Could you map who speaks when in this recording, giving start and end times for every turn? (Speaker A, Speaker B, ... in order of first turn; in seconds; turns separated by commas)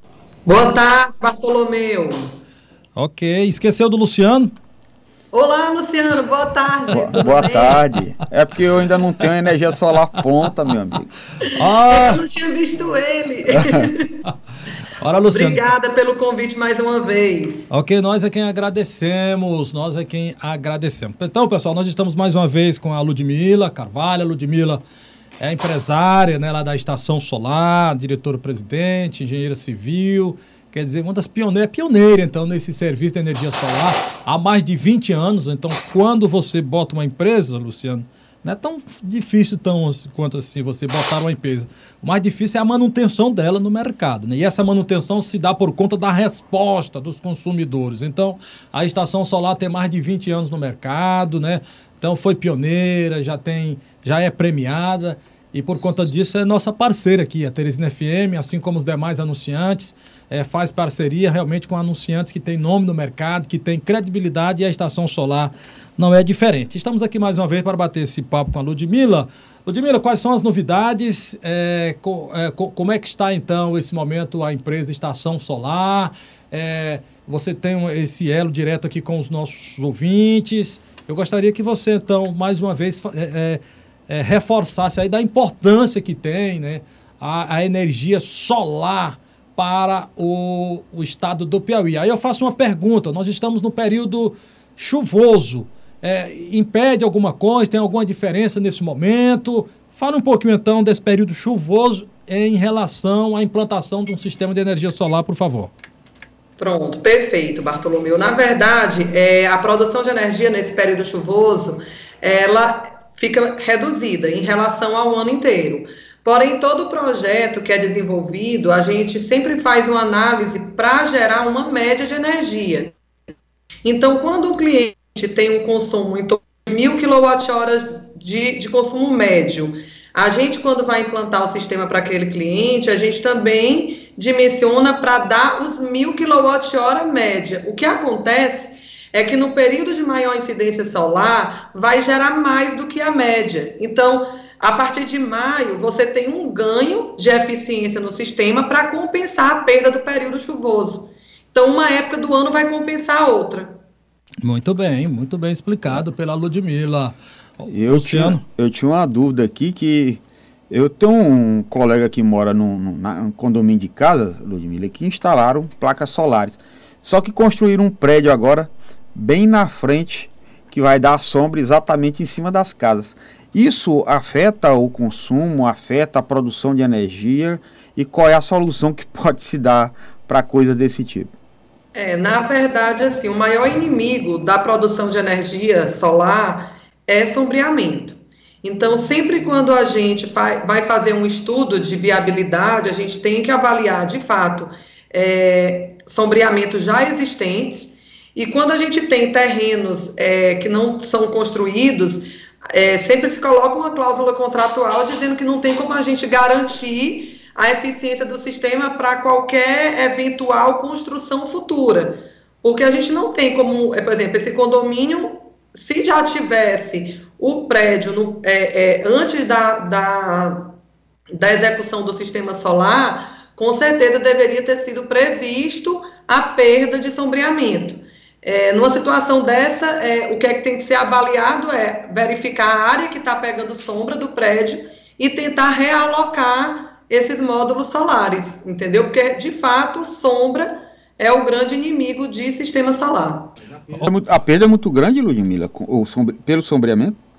Speaker A: 0.5-2.3, Speaker B: 3.0-4.5, Speaker A: 5.3-7.8, Speaker C: 6.9-11.1, Speaker B: 11.4-12.2, Speaker A: 11.8-14.2, Speaker B: 14.9-15.6, Speaker A: 15.3-17.7, Speaker B: 17.7-24.8, Speaker B: 25.4-105.7, Speaker A: 106.6-122.9, Speaker A: 123.8-153.8, Speaker B: 154.4-158.4, Speaker C: 157.7-181.3, Speaker A: 181.9-220.7, Speaker A: 221.3-243.5, Speaker C: 243.9-247.2